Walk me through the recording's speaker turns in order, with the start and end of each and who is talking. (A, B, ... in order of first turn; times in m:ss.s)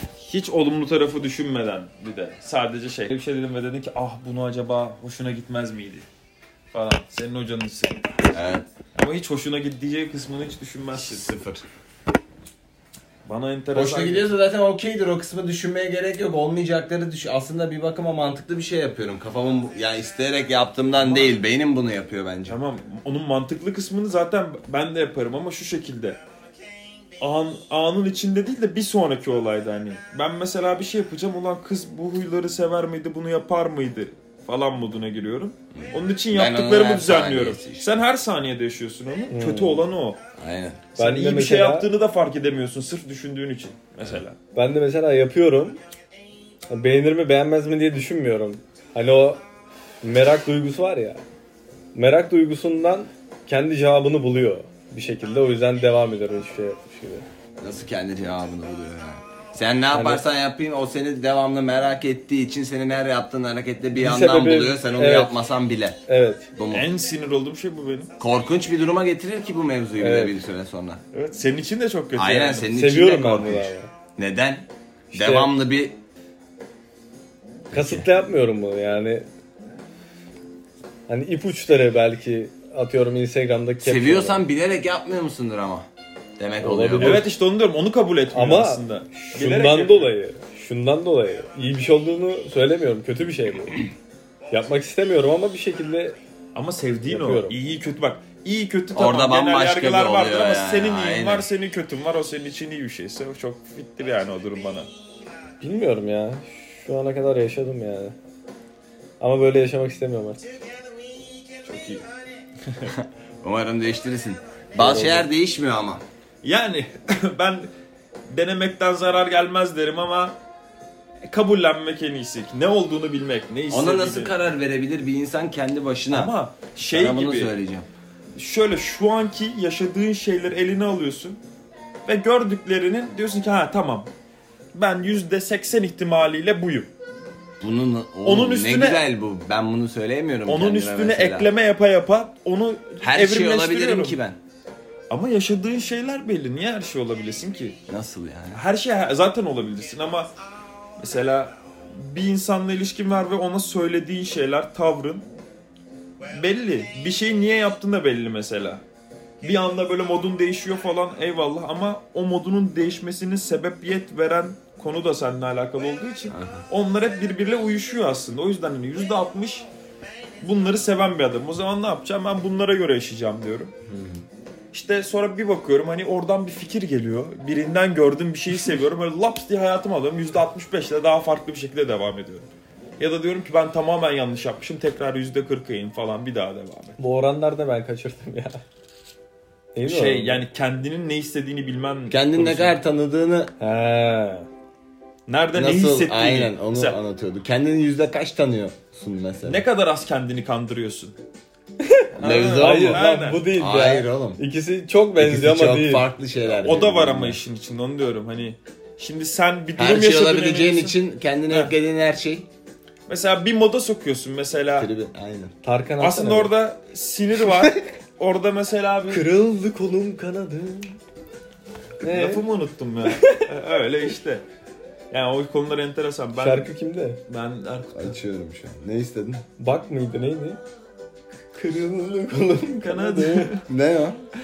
0:00.2-0:06.1 A
0:06.7-0:08.1 A
0:08.3-0:08.7 B
0:08.9-0:11.3 A
0:10.9-0:11.6 B
0:13.2-0:14.3 A
0:13.7-0:22.6 B
0:21.0-0:21.4 A
0:22.5-0:26.2 A
0:27.2-0:40.2 A
0:35.7-0:37.9 B
0:39.3-0:39.9 C
0:40.4-0:40.9 B
0:41.0-0:44.4 A
0:41.0-0:41.9 C
0:44.5-0:45.8 C
0:46.7-0:49.4 C
0:50.0-0:51.2 C
0:51.9-0:57.3 C
0:57.6-1:06.0 B
0:59.9-1:00.2 C
1:04.0-1:05.3 C
1:06.1-1:06.5 C
1:06.6-1:06.9 B
1:06.7-1:08.1 A
1:08.2-1:11.0 B
1:10.0-1:10.4 C
1:11.1-1:12.7 A
1:12.1-1:16.0 B
1:12.7-1:13.9 C
1:15.1-1:15.5 C
1:17.7-1:18.1 B
1:17.7-1:19.3 C
1:21.1-1:24.4 C
1:23.8-1:25.9 B
1:26.4-1:27.3 B
1:26.6-1:27.3 C
1:27.0-1:30.1 A
1:28.3-1:33.8 C
1:34.5-1:36.2 C
1:36.6-1:44.9 A
1:37.1-1:37.6 C
1:38.9-1:41.4 B
1:45.6-1:48.1 C
1:49.2-1:50.5 C
1:51.6-1:52.0 A
1:52.9-1:56.0 B
1:54.8-1:55.2 C
1:56.4-1:57.7 A
1:58.3-2:00.4 A
2:01.3-2:04.4 A
2:03.7-2:07.9 B
2:06.1-2:07.5 A
2:08.4-2:11.4 A
2:12.1-2:14.1 A
2:14.7-2:16.9 A
2:17.6-2:21.5 B
2:18.2-2:19.0 A
2:20.5-2:24.2 A
2:23.0-2:24.4 B
2:25.1-2:27.8 A
2:27.9-2:28.6 B
2:28.5-2:30.3 A
2:31.0-2:35.3 A
2:36.3-2:38.8 A
2:39.4-2:49.7 A
2:46.3-2:46.6 B
2:50.4-2:53.7 A
2:53.8-2:54.2 B
2:54.7-3:02.5 A
3:03.0-3:07.0 A
3:07.0-3:08.6 C
3:09.7-3:10.4 C
3:09.9-3:12.8 A
3:12.1-3:13.5 B
3:13.6-3:14.5 C
3:15.3-3:17.0 A
3:15.6-3:19.6 B
3:19.4-3:21.1 A
3:21.8-3:26.1 C
3:22.2-3:23.5 A
3:22.2-3:24.4 B
3:25.2-3:27.4 B
3:26.5-3:31.0 A
3:29.8-3:32.5 B
3:33.1-3:34.9 A
3:34.8-3:35.5 B
3:35.6-3:36.5 C
3:36.0-3:39.2 A
3:39.1-3:41.0 C
3:42.0-3:42.4 C
3:42.0-3:44.4 A
3:43.0-3:43.5 C
3:45.1-3:46.7 A
3:46.4-3:47.2 C
3:47.3-3:48.2 A
3:47.9-3:49.4 B
3:49.6-3:50.6 C
3:51.6-3:53.6 C
3:52.7-3:53.6 A
3:53.7-3:54.2 B